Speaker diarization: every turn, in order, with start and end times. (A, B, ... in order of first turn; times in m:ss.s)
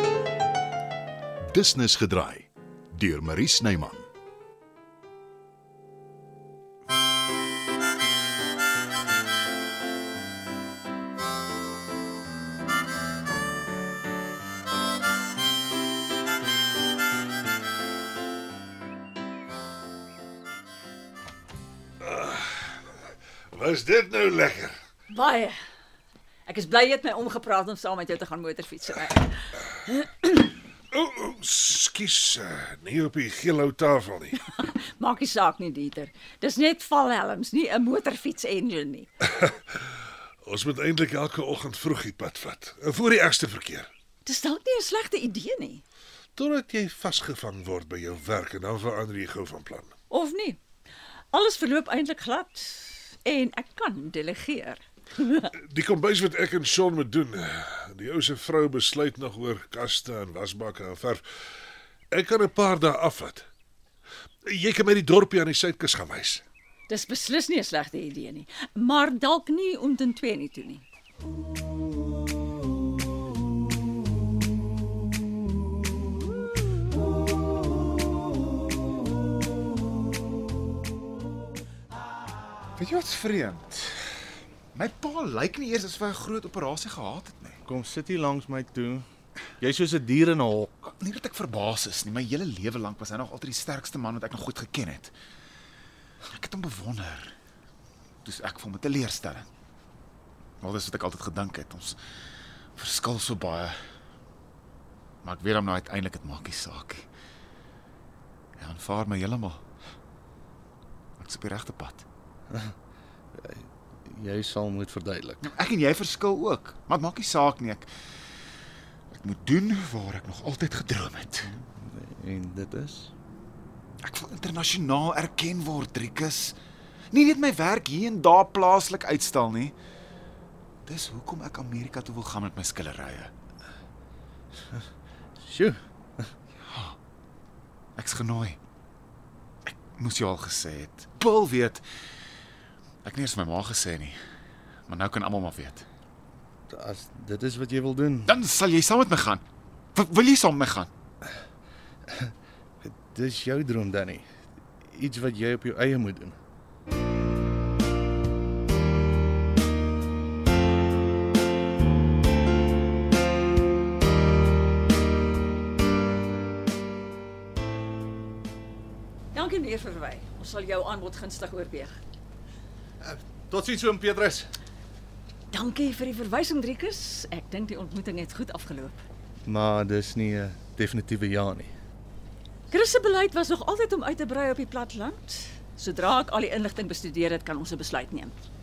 0:01.5-0:04.1 A
0:22.0-0:22.8 B
0:23.5-0:24.8 B
0:25.1-0:25.6 C
0:26.4-0:29.3 C
0:30.0-0:30.4 C
0:30.9-0:34.4 B
0:34.5-0:39.1 C
0:40.4-0:43.9 B
0:44.2-0:45.8 C
0:46.4-0:49.9 B
0:50.1-0:50.6 C
0:51.3-0:55.5 C
0:55.6-1:01.2 B
1:02.1-1:03.4 B
1:04.5-1:06.4 B
1:06.9-1:10.8 C
1:22.8-1:24.1 D
1:24.7-1:27.6 D
1:27.6-1:29.0 E
1:29.6-1:30.9 E
1:31.0-1:35.1 D
1:36.3-1:37.3 D
1:38.2-1:39.4 D
1:40.6-1:42.0 D
1:42.8-1:43.8 D
1:45.2-1:47.1 D
1:48.6-1:49.6 D
1:51.2-1:52.0 D
1:53.4-1:55.5 E
1:55.4-1:57.9 D
1:59.1-2:01.5 D
2:01.4-2:03.1 E
2:04.0-2:06.6 D
2:07.1-2:09.7 D
2:10.8-2:13.3 D
2:15.4-2:16.3 E
2:16.7-2:17.0 D
2:18.0-2:18.6 D
2:20.0-2:21.8 D
2:23.0-2:24.2 D
2:24.9-2:25.8 D
2:26.7-2:28.4 E
2:28.3-2:29.4 D
2:29.9-2:30.9 D
2:32.1-2:34.2 E
2:34.8-2:36.4 E
2:49.3-2:52.0 C
2:53.0-2:54.5 E
2:55.5-2:59.0 C
2:59.4-3:01.7 E
3:02.7-3:08.4 C